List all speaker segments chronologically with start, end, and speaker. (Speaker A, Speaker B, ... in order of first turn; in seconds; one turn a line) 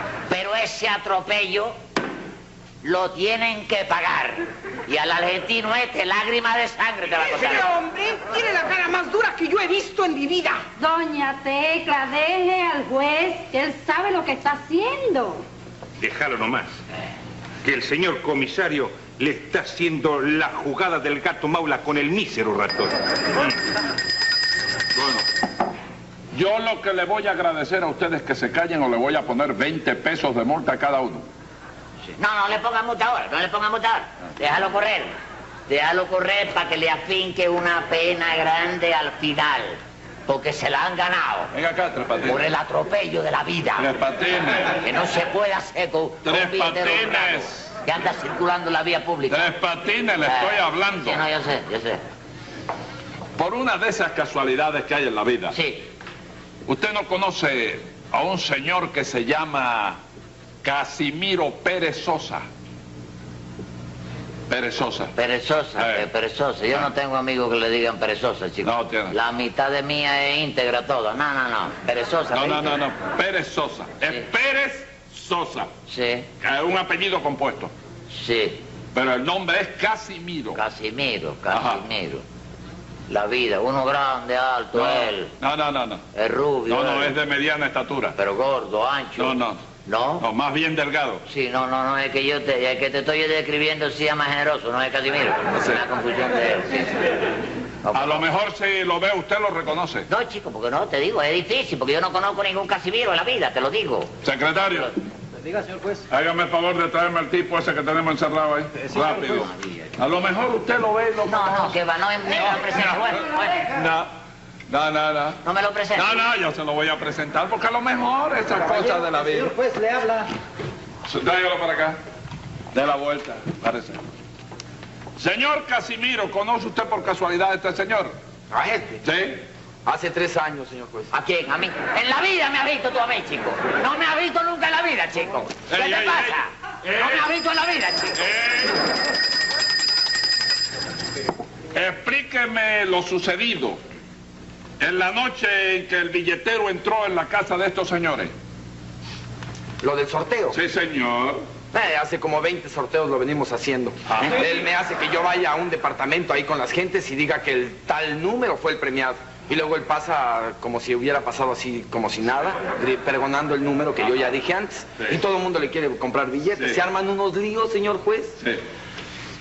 Speaker A: 0.3-1.8
Speaker A: 2.8-7.7
Speaker B: 7.2-10.6
Speaker C: 10.8-15.4
Speaker D: 16.0-16.7
Speaker D: 17.6-23.6
Speaker E: 24.9-25.2
Speaker E: 26.3-31.3
Speaker A: 32.2-35.1
Speaker A: 35.7-41.5
Speaker E: 41.5-42.5
Speaker A: 42.3-43.9
Speaker E: 43.8-44.8
Speaker A: 44.8-49.5
Speaker E: 46.2-47.7
Speaker E: 49.3-51.2
Speaker A: 50.2-52.0
Speaker E: 53.4-55.6
Speaker A: 55.5-55.9
Speaker E: 56.7-60.0
Speaker E: 60.6-62.5
Speaker E: 64.5-65.1
Speaker A: 65.2-72.8
Speaker E: 65.8-66.1
Speaker E: 68.6-69.2
Speaker E: 72.3-75.7
Speaker A: 75.9-76.3
Speaker E: 76.4-77.7
Speaker A: 78.1-78.6
Speaker E: 78.9-80.6
Speaker A: 80.5-82.2
Speaker E: 81.5-81.8
Speaker A: 83.1-85.3
Speaker E: 84.8-86.0
Speaker A: 86.1-87.2
Speaker E: 86.7-88.2
Speaker A: 88.2-90.2
Speaker E: 89.2-89.6
Speaker E: 90.2-91.2
Speaker A: 91.3-97.0
Speaker E: 95.5-95.8
Speaker A: 97.8-98.3
Speaker E: 97.9-100.1
Speaker A: 100.1-104.9
Speaker E: 104.2-104.9
Speaker F: 105.3-106.1
Speaker E: 106.1-111.8
Speaker F: 108.8-109.5
Speaker A: 111.2-113.6
Speaker E: 112.3-114.1
Speaker E: 114.7-115.4
Speaker A: 115.4-116.2
Speaker E: 116.0-119.5
Speaker F: 118.5-120.3
Speaker E: 121.1-122.0
Speaker E: 122.7-124.0
Speaker E: 125.2-128.1
Speaker G: 128.5-129.0
Speaker E: 129.0-129.4
Speaker G: 129.8-131.1
Speaker A: 131.1-138.2
Speaker E: 135.7-137.3
Speaker E: 138.2-138.8
Speaker E: 141.7-143.8
Speaker E: 144.8-148.3
Speaker G: 149.8-150.6
Speaker E: 150.5-151.4
Speaker G: 151.7-168.4
Speaker E: 154.1-154.6
Speaker E: 166.6-166.8